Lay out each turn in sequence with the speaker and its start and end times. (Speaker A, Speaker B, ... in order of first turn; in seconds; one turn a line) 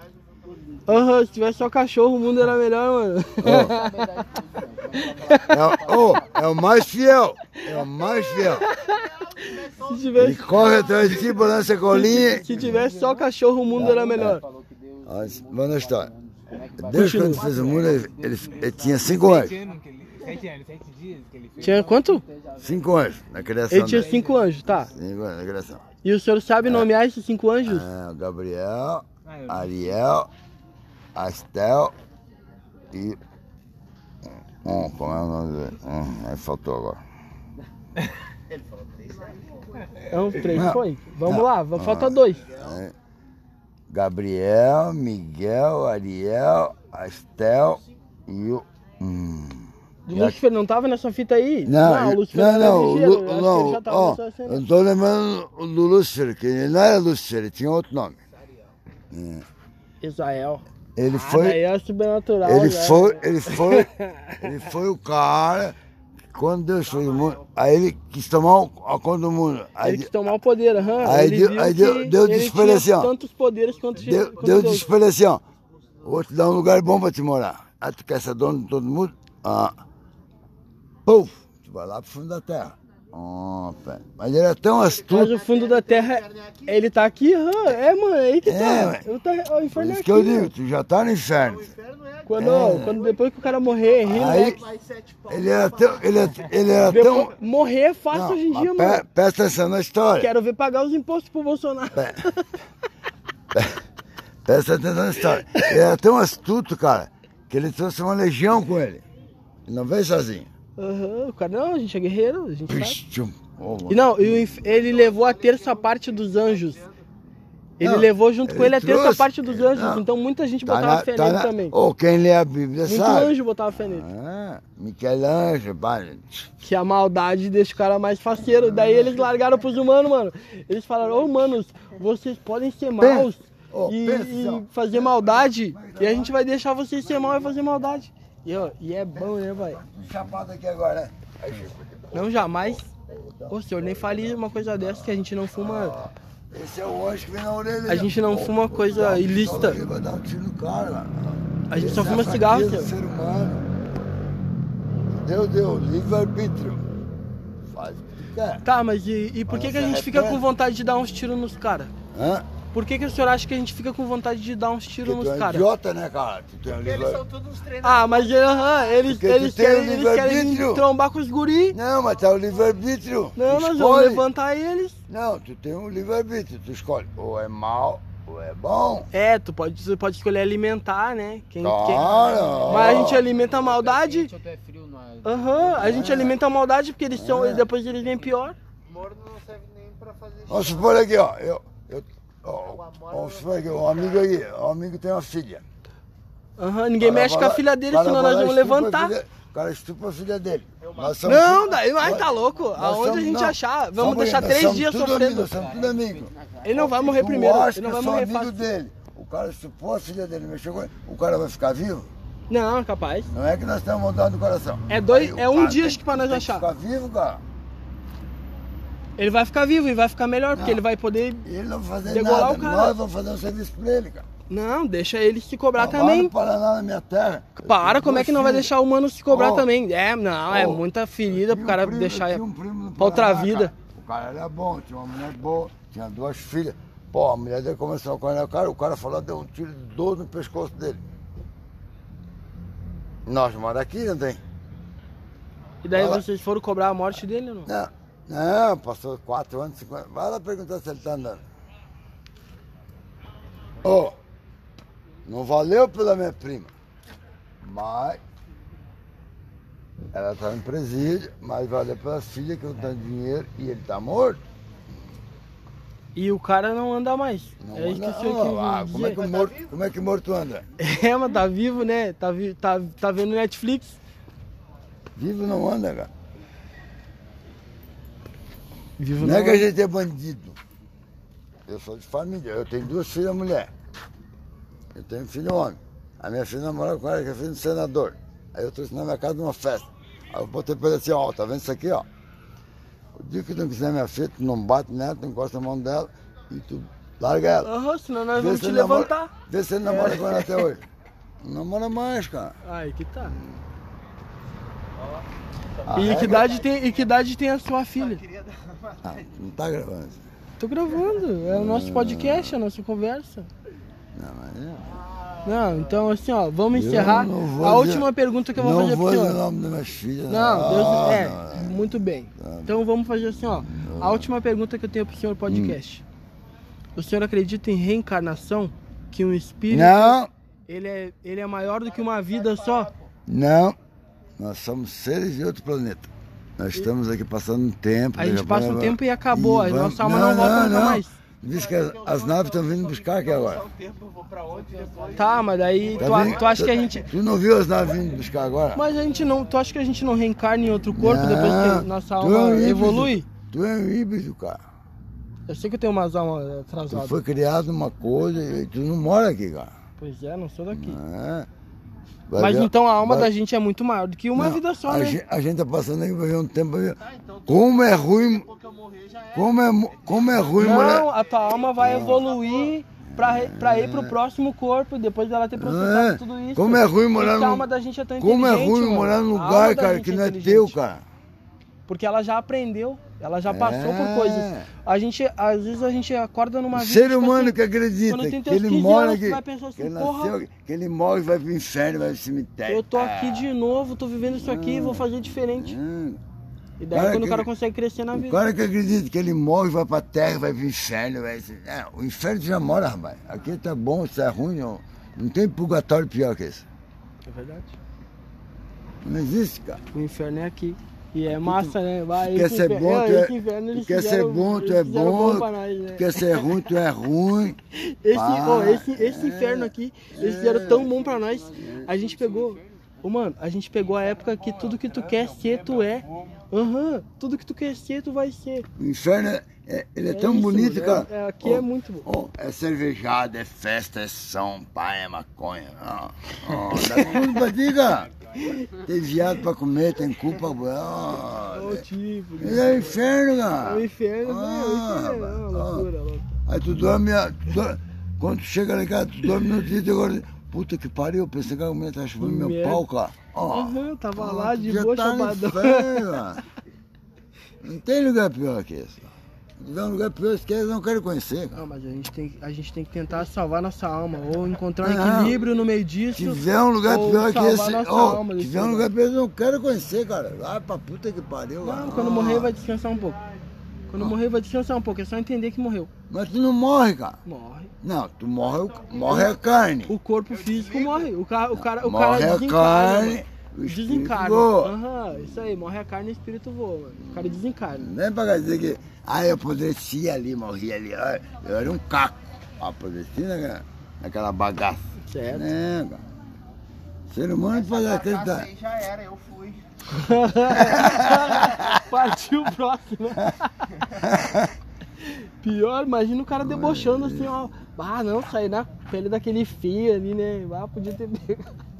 Speaker A: 0.9-5.6
Speaker B: 3.4-3.8
Speaker C: 4.1-5.3
Speaker B: 5.5-8.7
Speaker A: 8.4-11.4
Speaker B: 10.2-12.8
Speaker A: 11.9-14.4
Speaker B: 13.7-14.4
Speaker C: 14.7-15.1
Speaker B: 15.0-19.6
Speaker C: 15.7-21.8
Speaker A: 16.9-17.5
Speaker A: 21.6-22.2
Speaker B: 22.6-24.2
Speaker A: 23.7-24.9
Speaker B: 24.9-25.8
Speaker A: 26.0-27.9
Speaker B: 27.6-30.3
Speaker B: 31.1-31.9
Speaker B: 32.9-33.2
Speaker B: 34.6-37.0
Speaker A: 40.1-42.5
Speaker B: 40.5-42.9
Speaker B: 43.9-50.4
Speaker A: 50.1-54.6
Speaker B: 51.6-58.2
Speaker B: 59.1-59.4
Speaker A: 60.0-64.5
Speaker B: 61.0-61.6
Speaker B: 62.4-65.7
Speaker B: 66.3-70.1
Speaker A: 69.8-74.9
Speaker B: 71.0-73.1
Speaker B: 74.0-75.4
Speaker B: 76.0-79.7
Speaker B: 81.0-85.4
Speaker A: 85.1-90.5
Speaker B: 88.4-89.0
Speaker B: 89.7-91.8
Speaker A: 92.2-94.6
Speaker B: 92.3-93.0
Speaker B: 94.0-94.7
Speaker B: 95.3-97.3
Speaker A: 96.8-99.0
Speaker B: 98.1-100.3
Speaker A: 100.2-102.5
Speaker B: 101.9-102.2
Speaker B: 104.5-109.0
Speaker B: 109.7-110.5
Speaker A: 110.8-113.0
Speaker B: 112.7-114.6
Speaker A: 113.9-116.9
Speaker A: 117.8-121.8
Speaker B: 117.8-120.0
Speaker B: 120.6-126.5
Speaker A: 122.8-124.1
Speaker A: 126.6-139.8
Speaker B: 128.7-129.0
Speaker B: 133.0-136.3
Speaker B: 139.5-153.6
Speaker A: 142.1-142.9
Speaker A: 143.5-146.0
Speaker A: 147.9-149.8
Speaker A: 151.7-152.9
Speaker B: 155.1-156.8
Speaker B: 157.7-158.6
Speaker A: 158.6-161.9
Speaker B: 159.5-160.4
Speaker B: 162.1-162.4
Speaker A: 162.7-165.7
Speaker B: 165.0-167.3
Speaker A: 167.6-171.8
Speaker B: 169.0-170.9
Speaker B: 171.7-174.2
Speaker A: 173.3-175.0
Speaker B: 175.1-179.1
Speaker A: 179.1-182.1
Speaker B: 181.6-183.3
Speaker A: 182.7-184.3
Speaker C: 183.7-185.8
Speaker A: 185.2-188.6
Speaker B: 185.8-186.4
Speaker B: 187.1-187.7
Speaker D: 189.0-190.4
Speaker B: 190.4-195.6
Speaker A: 196.6-199.1
Speaker B: 197.0-212.1
Speaker A: 201.2-205.6
Speaker A: 206.6-208.6
Speaker A: 212.5-213.3
Speaker B: 213.3-217.4
Speaker A: 214.9-216.7
Speaker A: 219.2-221.4
Speaker B: 220.5-220.8
Speaker B: 221.4-224.2
Speaker A: 222.0-223.0
Speaker A: 224.5-226.3
Speaker B: 225.8-228.7
Speaker A: 227.6-232.4
Speaker B: 229.3-229.7
Speaker B: 230.5-241.0
Speaker A: 233.0-233.7
Speaker B: 243.3-244.4
Speaker A: 245.8-247.7
Speaker B: 245.9-246.2
Speaker B: 247.7-251.4
Speaker B: 253.8-254.2
Speaker B: 255.2-256.7
Speaker B: 257.6-258.2
Speaker B: 260.1-264.4
Speaker A: 266.1-269.2
Speaker B: 267.6-270.6
Speaker A: 270.8-274.0
Speaker B: 275.1-276.1
Speaker A: 279.0-279.7
Speaker B: 279.2-280.6
Speaker B: 281.7-283.7
Speaker B: 284.9-292.0
Speaker B: 293.1-297.7
Speaker A: 297.6-299.3
Speaker B: 298.3-300.8
Speaker A: 299.8-300.7
Speaker B: 301.4-302.6
Speaker A: 302.6-303.4
Speaker B: 303.2-303.6
Speaker B: 305.9-306.5
Speaker A: 305.9-308.2
Speaker B: 309.0-310.2
Speaker A: 310.6-313.5
Speaker B: 311.4-312.6
Speaker B: 314.1-315.0
Speaker A: 315.4-319.4
Speaker B: 316.7-321.8
Speaker A: 320.3-326.0
Speaker B: 322.4-322.8
Speaker B: 323.7-324.3
Speaker B: 325.5-325.8
Speaker A: 326.9-330.2
Speaker B: 329.7-330.3
Speaker A: 330.7-332.9
Speaker B: 333.3-333.8
Speaker B: 334.4-343.7
Speaker A: 338.1-341.1
Speaker D: 343.7-345.1
Speaker A: 345.1-347.1
Speaker B: 346.0-348.8
Speaker A: 348.7-353.3
Speaker B: 350.9-354.6
Speaker A: 355.5-357.2
Speaker B: 356.9-359.7
Speaker A: 360.0-361.0
Speaker B: 360.7-361.5
Speaker B: 362.3-363.3
Speaker A: 362.4-365.2
Speaker B: 364.3-368.5
Speaker D: 368.8-369.1
Speaker B: 369.3-371.1
Speaker A: 370.6-380.8
Speaker B: 371.8-372.3
Speaker B: 373.1-374.1
Speaker B: 375.6-377.6
Speaker B: 378.2-381.0
Speaker A: 381.9-387.6
Speaker B: 383.4-384.7
Speaker B: 386.7-393.5
Speaker A: 388.1-390.3
Speaker A: 392.7-395.8
Speaker B: 394.2-396.2
Speaker A: 396.8-398.4
Speaker B: 396.9-397.5
Speaker B: 398.1-406.6
Speaker A: 407.2-407.8
Speaker B: 409.0-409.8
Speaker A: 409.9-416.7
Speaker B: 411.3-417.6
Speaker A: 417.7-428.7
Speaker B: 418.1-421.9
Speaker B: 428.8-438.1
Speaker A: 430.1-432.1
Speaker A: 436.7-437.4
Speaker A: 438.4-438.6
Speaker B: 438.6-441.8
Speaker A: 441.5-443.0
Speaker B: 442.4-445.9
Speaker A: 443.6-446.3
Speaker B: 446.4-456.4
Speaker A: 452.2-452.8
Speaker A: 453.5-456.2
Speaker B: 457.6-461.6
Speaker A: 461.6-468.9
Speaker B: 464.8-465.4
Speaker B: 466.1-472.5
Speaker A: 471.6-473.2
Speaker A: 473.9-475.9
Speaker B: 476.1-477.2
Speaker A: 477.2-477.7
Speaker B: 477.8-479.9
Speaker A: 478.9-479.3
Speaker A: 479.9-487.9
Speaker B: 481.5-485.3
Speaker B: 487.0-496.0
Speaker A: 495.1-495.5
Speaker B: 497.1-498.7
Speaker D: 499.0-499.4
Speaker A: 499.9-503.9
Speaker B: 500.5-501.6
Speaker B: 503.9-504.5
Speaker A: 505.0-511.6
Speaker B: 506.4-507.4